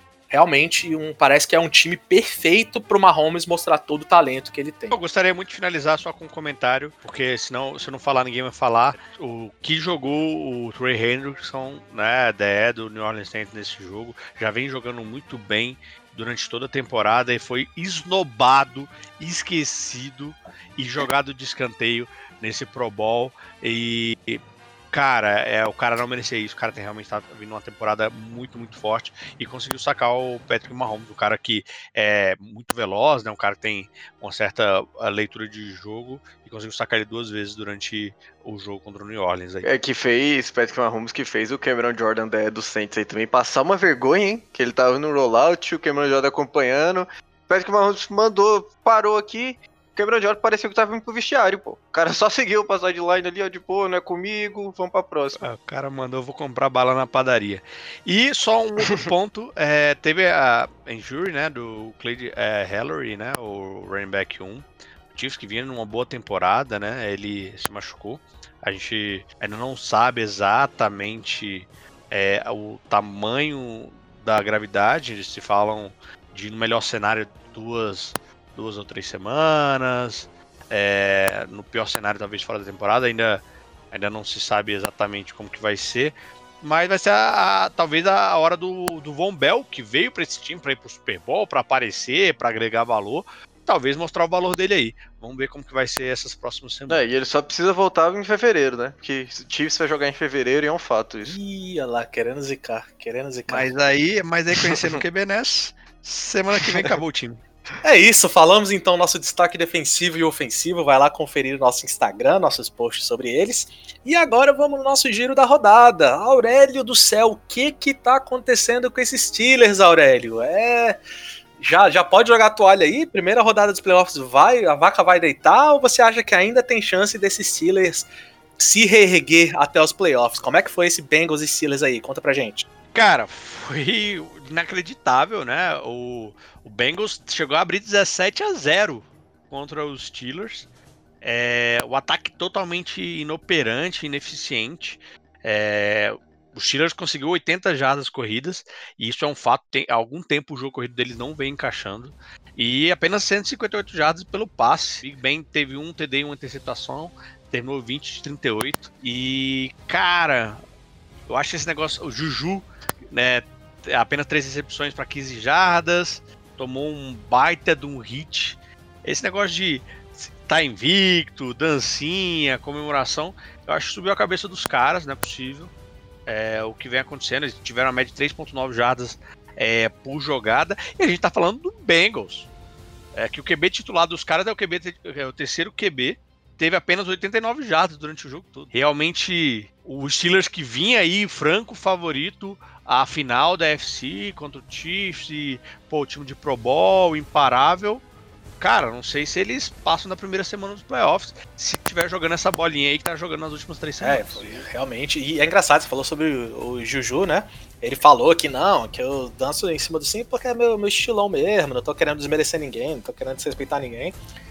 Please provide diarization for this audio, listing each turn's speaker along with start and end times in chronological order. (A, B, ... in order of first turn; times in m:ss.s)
0:00.3-0:05.0 A
0:04.9-0:39.7 B
0:39.6-0:55.4 C
0:55.4-1:37.0 B
1:36.9-1:41.4 C
1:41.2-1:43.7 A
1:43.5-1:47.4 B
1:44.8-1:45.0 C
1:46.6-1:46.9 C
1:47.8-2:01.0 A
2:01.6-2:12.7 A
2:12.9-2:20.7 B
2:21.2-2:40.6 B
2:41.3-2:55.7 B
2:56.3-3:02.5 B
3:03.2-3:18.0 B
3:18.6-3:24.7 B
3:24.0-3:34.2 A